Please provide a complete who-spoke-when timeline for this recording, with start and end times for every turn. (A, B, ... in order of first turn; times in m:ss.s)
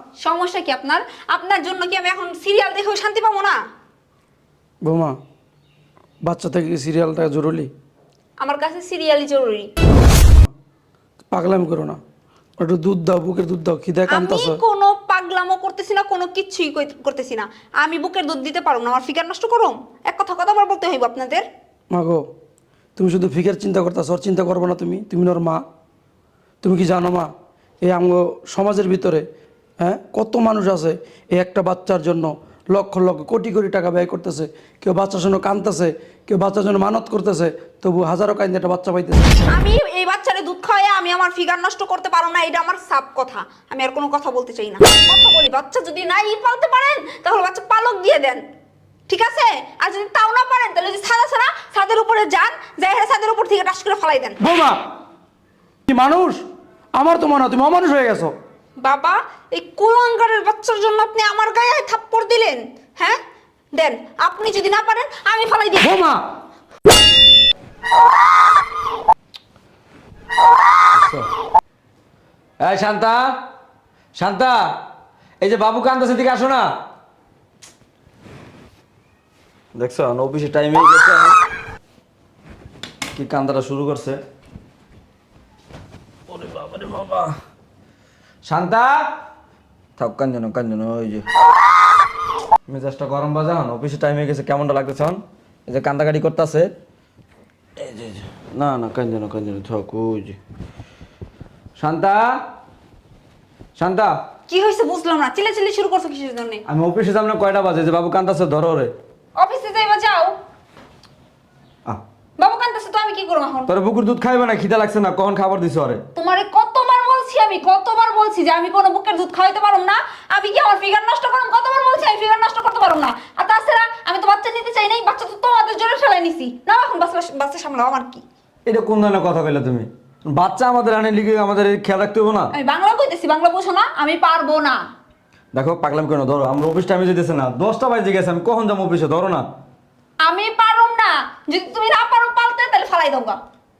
0:00.2-0:03.6 A
0:04.8-0:05.1 B
0:06.3-0:07.7 B
0:08.4-0:09.7 A
0:11.3-0:12.0 B
0:12.6-0:14.6 B
0:14.1-0:21.4 A
0:21.9-0:22.2 B
0:23.0-0:25.6 B
0:26.6-0:27.3 B
0:27.8-0:29.2 B
0:29.8-0:39.4 B
0:39.5-0:48.4 A
0:49.1-0:54.4 A
0:54.4-0:54.8 B
0:55.9-0:56.4 B
0:57.0-0:58.3 B
0:58.8-1:03.2 A
1:03.7-1:06.0 A
1:05.8-1:06.2 B
1:10.9-1:11.3 C
1:12.6-1:13.3 C
1:14.2-1:14.8 C
1:15.4-1:16.7 C
1:19.8-1:21.4 C
1:23.1-1:24.2 C
1:26.3-1:27.4 C
1:28.5-1:29.0 C
1:30.0-1:31.3 C
1:32.7-1:36.7 C
1:37.8-1:40.4 C
1:41.8-1:42.4 C
1:43.8-1:44.1 C
1:44.5-1:46.6 A
1:46.7-1:48.9 C
1:49.4-1:50.3 A
1:52.4-1:53.7 A
1:53.7-1:56.0 C
1:56.2-2:08.2 A
2:08.7-2:12.5 C
2:12.5-2:14.8 A
2:15.5-2:19.4 C
2:20.2-2:23.4 A